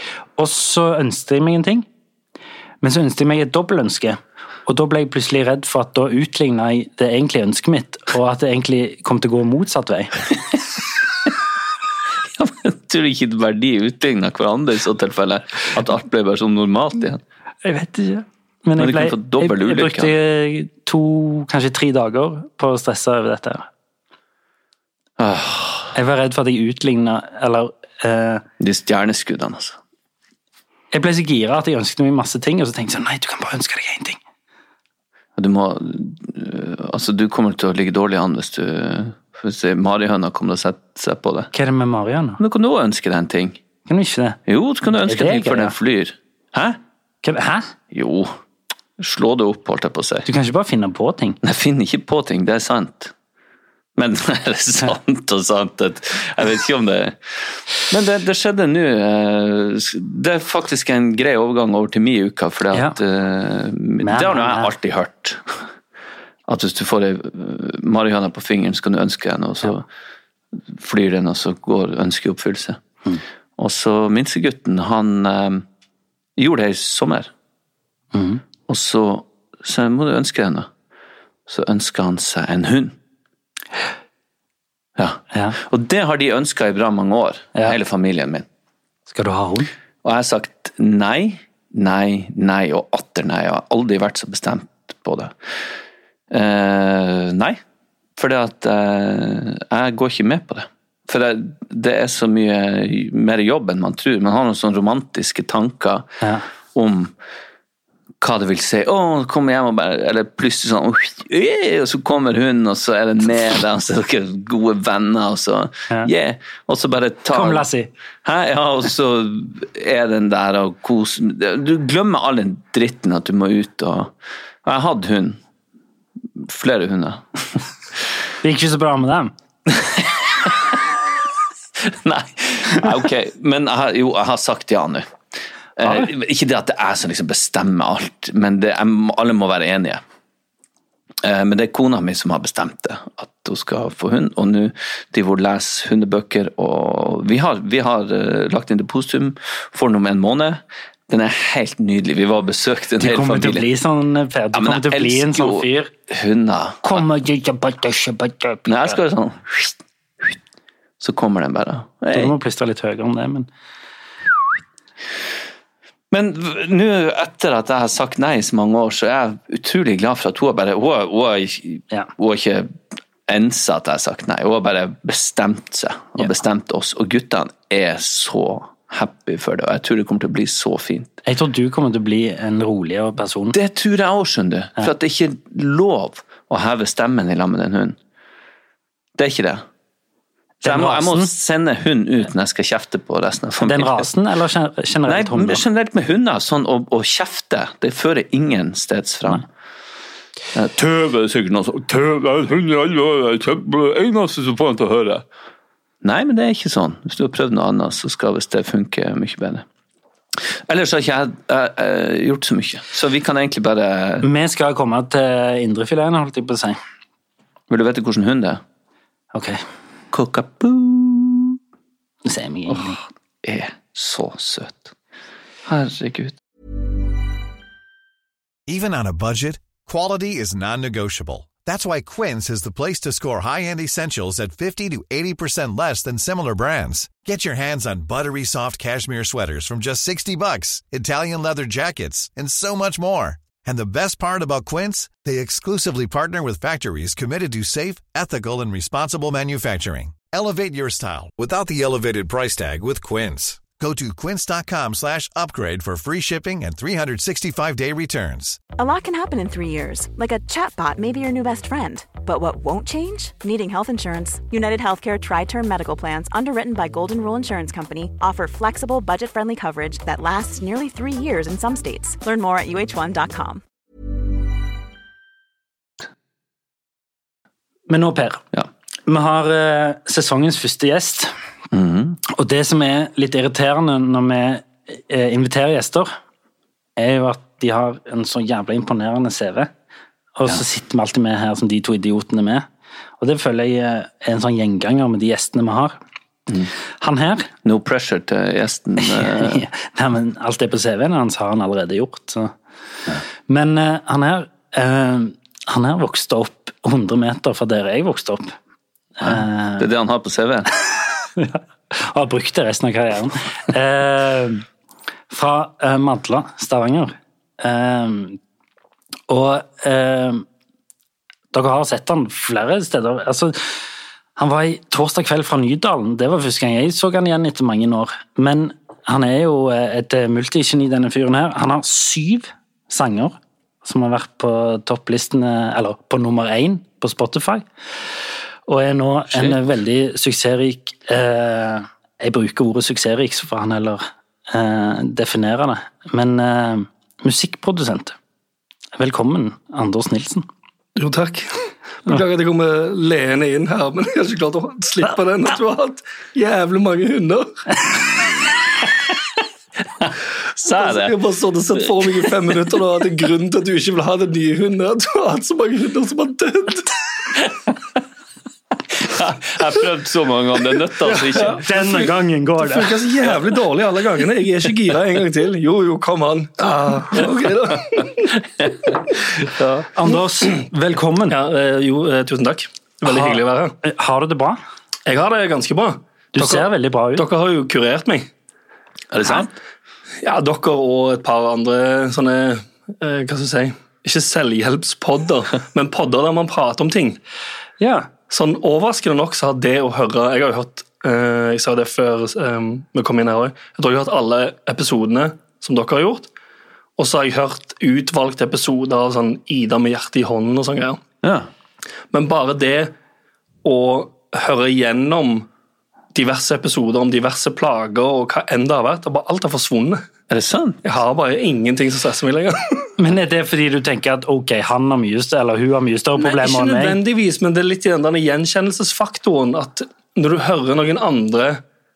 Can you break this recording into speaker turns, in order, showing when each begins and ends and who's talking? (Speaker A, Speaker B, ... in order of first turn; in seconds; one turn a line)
Speaker A: 0.4-1.9
Speaker A: 2.8-10.2
Speaker B: 12.4-17.2
Speaker A: 17.6-23.7
Speaker B: 18.8-20.1
Speaker B: 25.2-25.9
Speaker A: 25.9-28.4
Speaker B: 28.6-29.8
Speaker A: 30.9-34.2
Speaker B: 35.4-41.5
Speaker A: 41.5-42.4
Speaker B: 42.4-43.6
Speaker A: 43.9-44.4
Speaker B: 44.5-46.8
Speaker A: 45.0-45.8
Speaker A: 47.2-47.7
Speaker B: 47.9-48.3
Speaker B: 49.0-50.3
Speaker A: 50.2-51.4
Speaker B: 51.4-53.1
Speaker B: 54.0-65.6
Speaker A: 64.0-64.7
Speaker B: 66.5-69.8
Speaker B: 70.7-72.8
Speaker B: 73.6-75.6
Speaker B: 76.4-77.3
Speaker A: 78.1-78.4
Speaker B: 78.7-80.7
Speaker B: 81.5-83.0
Speaker B: 85.0-88.5
Speaker A: 89.1-89.7
Speaker B: 90.0-95.3
Speaker B: 96.3-97.6
Speaker B: 98.2-106.1
Speaker B: 106.8-107.1
Speaker B: 108.2-117.7
Speaker A: 117.3-117.9
Speaker B: 118.2-124.1
Speaker B: 124.6-125.4
Speaker B: 126.4-127.6
Speaker A: 128.4-129.3
Speaker B: 129.7-130.8
Speaker B: 131.8-135.1
Speaker B: 135.8-140.0
Speaker B: 141.2-153.7
Speaker A: 153.0-155.9
Speaker B: 154.5-157.0
Speaker A: 156.8-159.0
Speaker B: 158.7-160.3
Speaker B: 161.0-162.3
Speaker A: 162.1-163.5
Speaker B: 166.1-172.8
Speaker B: 173.3-181.1
Speaker A: 181.2-183.6
Speaker B: 183.5-188.0
Speaker B: 189.2-189.6
Speaker A: 190.6-191.3
Speaker B: 190.6-194.1
Speaker A: 193.6-195.6
Speaker B: 195.0-199.4
Speaker B: 200.5-205.2
Speaker B: 206.0-209.6
Speaker B: 210.7-214.2
Speaker A: 214.2-216.8
Speaker B: 217.7-218.6
Speaker A: 219.3-219.6
Speaker B: 220.1-221.6
Speaker A: 222.2-223.0
Speaker B: 223.4-224.9
Speaker B: 225.7-226.4
Speaker C: 228.7-258.6
Speaker D: 258.8-273.6
Speaker A: 277.9-278.4
Speaker A: 279.1-281.3
Speaker B: 281.7-282.2
Speaker A: 282.3-286.1
Speaker A: 287.0-289.7
Speaker A: 290.4-292.6
Speaker A: 293.2-296.0
Speaker A: 297.0-297.5
Speaker B: 297.6-299.6
Speaker A: 299.0-302.5
Speaker A: 303.5-308.5
Speaker A: 309.2-309.9
Speaker B: 309.2-310.7
Speaker A: 311.4-314.6
Speaker A: 315.3-318.4
Speaker A: 319.3-320.4
Speaker A: 321.5-323.8
Speaker A: 324.4-337.6
Speaker A: 338.7-348.1
Speaker A: 349.0-350.5
Speaker E: 351.0-351.5
Speaker E: 352.0-357.6
Speaker B: 360.6-361.1
Speaker E: 360.6-366.9
Speaker B: 369.0-371.6
Speaker E: 371.0-372.1
Speaker A: 371.6-372.9
Speaker E: 372.6-378.4
Speaker E: 379.4-380.1
Speaker A: 379.9-381.4
Speaker E: 381.3-383.8
Speaker A: 383.0-384.6
Speaker E: 385.1-388.3
Speaker A: 386.3-387.2
Speaker B: 389.1-389.5
Speaker E: 390.2-397.2
Speaker A: 397.8-398.1
Speaker E: 398.3-406.3
Speaker E: 407.0-411.0
Speaker B: 411.2-411.5
Speaker E: 412.1-412.9
Speaker E: 413.6-415.5
Speaker E: 416.1-420.0
Speaker B: 420.3-420.8
Speaker E: 420.9-422.9
Speaker A: 423.0-427.0
Speaker E: 426.2-431.6